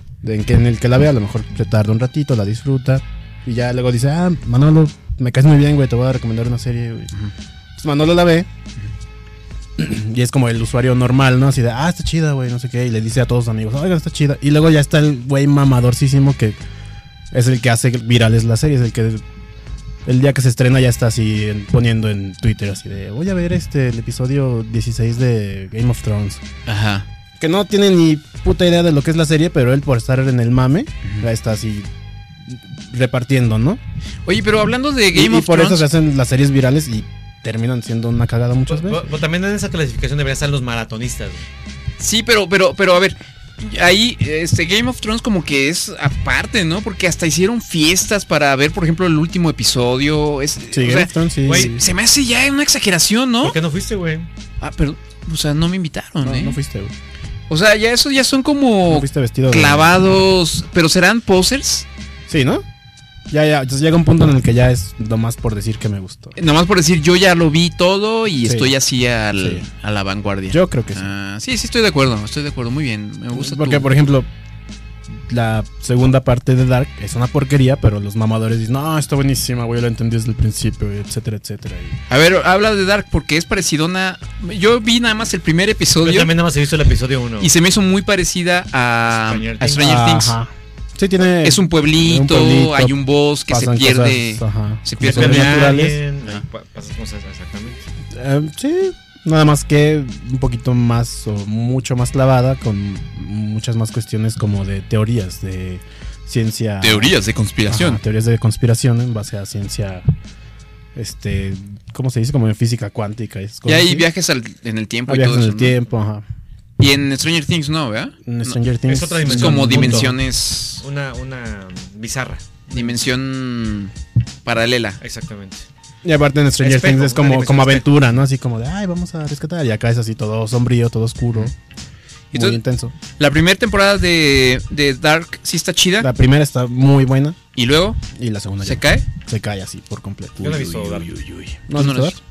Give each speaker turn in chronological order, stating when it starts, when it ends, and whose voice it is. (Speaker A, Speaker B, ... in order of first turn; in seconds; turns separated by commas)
Speaker A: 0.2-7.1, Speaker A: 7.8-8.5, Speaker A: 9.8-16.6, Speaker A: 17.3-19.2, Speaker A: 20.1-26.4, Speaker B: 26.7-27.1, Speaker A: 27.4-31.9, Speaker A: 32.4-33.8, Speaker B: 34.3-35.9, Speaker A: 35.1-39.1, Speaker C: 38.7-41.5, Speaker B: 42.0-53.6, Speaker A: 50.7-51.8, Speaker C: 51.5-51.7, Speaker C: 53.4-54.3, Speaker B: 54.6-56.6, Speaker A: 56.2-56.9, Speaker B: 57.5-61.9, Speaker A: 58.9-60.0, Speaker A: 62.3-62.6, Speaker A: 63.3-66.4, Speaker B: 66.4-73.9, Speaker A: 68.5-68.7, Speaker A: 69.3-69.7, Speaker A: 70.5-71.1, Speaker A: 73.3-74.3, Speaker A: 75.1-82.0, Speaker B: 82.1-86.3, Speaker C: 86.0-87.5, Speaker B: 87.4-90.4, Speaker C: 89.1-90.0, Speaker A: 89.8-93.0, Speaker B: 91.4-95.8, Speaker A: 93.5-96.0, Speaker C: 95.0-97.8, Speaker A: 98.1-107.2, Speaker B: 106.8-108.0, Speaker A: 107.7-110.0, Speaker A: 111.0-114.1, Speaker B: 113.7-115.8, Speaker A: 115.1-116.2, Speaker B: 116.8-118.6, Speaker A: 118.3-120.1, Speaker C: 118.9-120.1, Speaker B: 119.2-120.8, Speaker C: 120.8-123.0, Speaker B: 122.7-123.9, Speaker B: 124.5-125.0, Speaker C: 125.0-125.7, Speaker A: 126.0-131.5, Speaker C: 126.6-127.9, Speaker B: 132.3-132.6, Speaker A: 132.3-132.9, Speaker B: 133.2-136.1, Speaker A: 136.0-137.4, Speaker B: 137.6-138.0, Speaker A: 138.1-140.7, Speaker B: 138.6-139.1, Speaker C: 140.4-141.1, Speaker B: 140.4-142.2, Speaker A: 141.7-142.2